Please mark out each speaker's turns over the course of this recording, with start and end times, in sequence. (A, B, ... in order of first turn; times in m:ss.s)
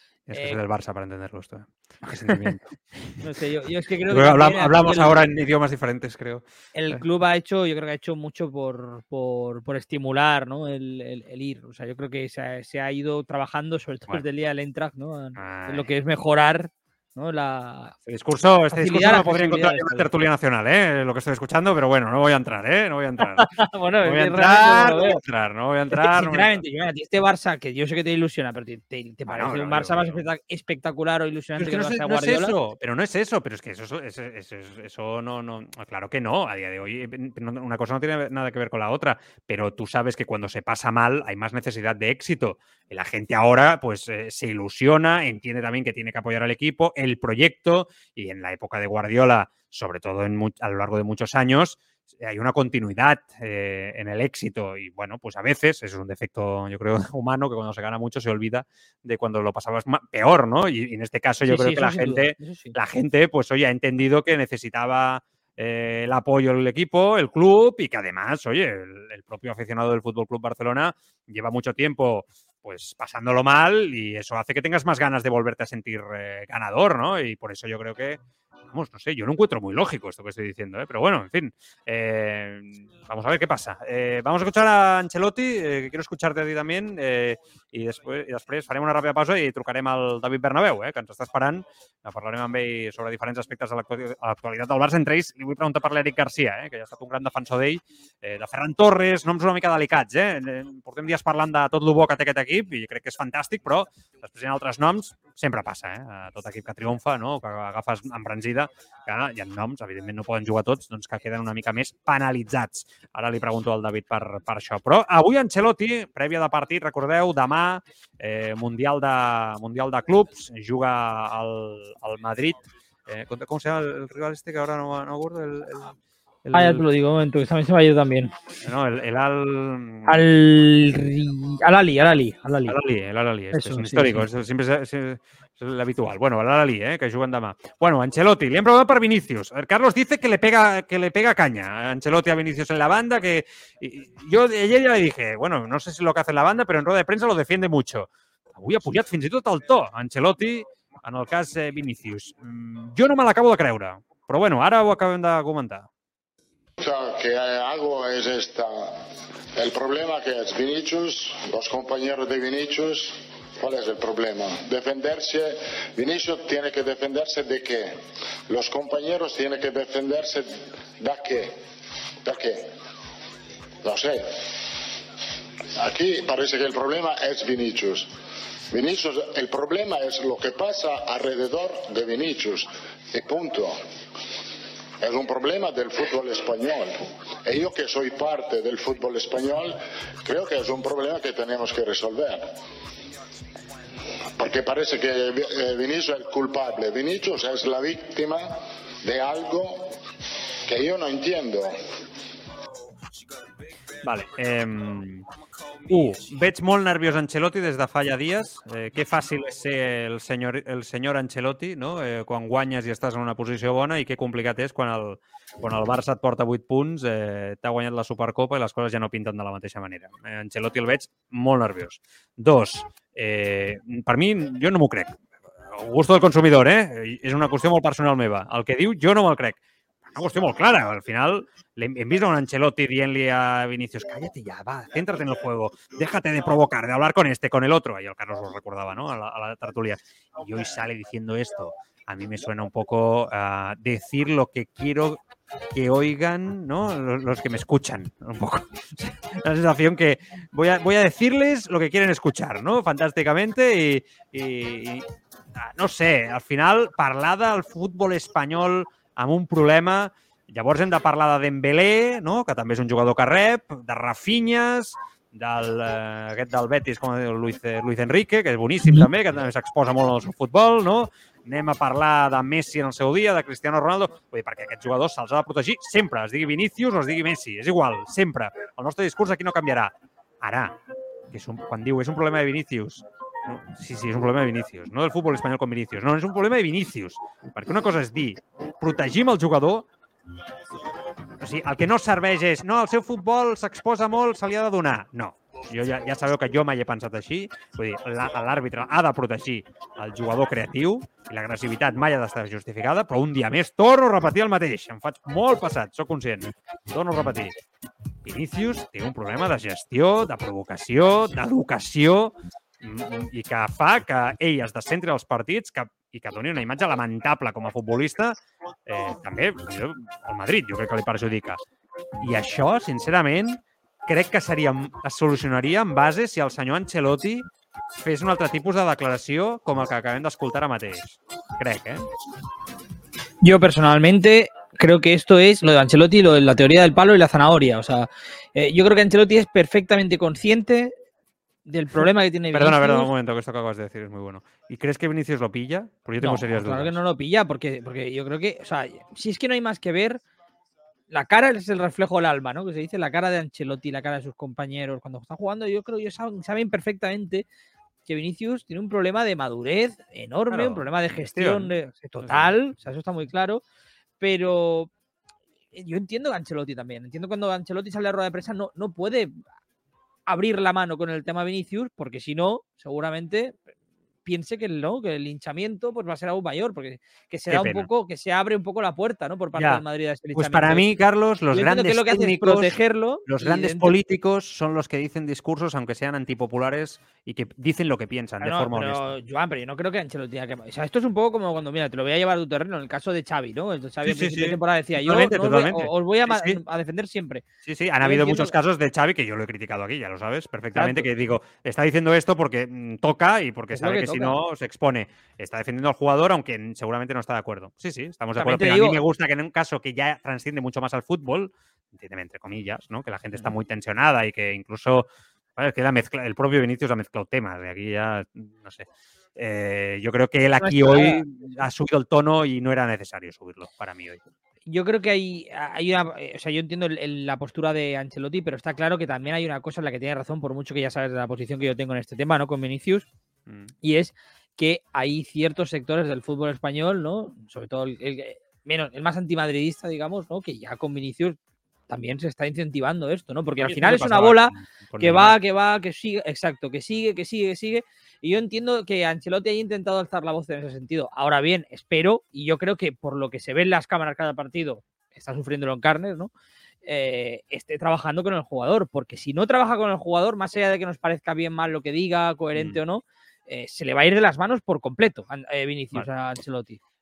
0:00.3-0:03.2 A
0:00.3-0:00.6 B
0:03.2-0:05.2 B
0:04.1-0:07.0 A
0:06.7-0:17.9 B
0:15.4-0:15.9 A
0:18.0-0:23.5 A
0:18.7-0:20.1 B
0:23.2-0:25.2 B
0:24.0-0:26.6 A
0:25.9-0:32.6 B
0:29.3-0:30.2 A
0:31.6-2:06.8 A
1:01.4-1:02.7 B
2:06.5-2:08.3 B
2:08.6-2:10.2 A
2:10.1-2:12.8 B
2:12.7-2:35.9 A
2:13.5-2:14.2 B
2:36.8-2:39.0 C
2:39.5-2:47.9 C
2:48.5-2:51.6 C
2:52.2-2:52.7 C
2:53.8-2:54.3 C
2:55.8-2:58.1 C
2:58.7-3:03.8 C
3:05.0-3:12.5 C
3:14.4-3:19.9 C
3:20.6-3:21.8 C
3:24.0-3:25.3 A
3:25.9-3:45.2 A
3:45.7-4:05.2 A
4:05.7-4:40.8 A
4:41.3-4:49.8 A
4:51.4-5:07.5 A
5:08.2-5:21.6 A
5:22.2-5:27.5 A
5:28.0-5:32.1 A
5:33.4-5:40.9 B
5:41.7-5:43.1 B
5:42.5-5:47.0 A
5:46.2-5:50.2 B
5:51.1-5:57.4 B
5:58.1-6:03.6 B
6:00.5-6:02.6 A
6:04.2-6:04.9 B
6:05.7-6:09.4 B
6:10.3-6:13.6 B
6:14.2-6:20.9 B
6:17.5-6:17.9 A
6:19.5-6:19.8 A
6:20.3-6:29.1 A
6:21.5-6:23.9 B
6:28.4-6:37.4 B
6:34.0-6:36.6 A
6:37.6-7:04.2 A
6:38.0-6:38.5 B
6:40.7-6:41.1 B
6:43.7-6:44.4 B
6:48.4-6:49.0 B
7:00.6-7:01.2 B
7:04.7-7:13.1 B
7:13.5-7:13.7 A
7:13.8-7:21.4 B
7:21.9-7:36.3 B
7:23.6-7:25.4 A
7:36.8-7:46.8 B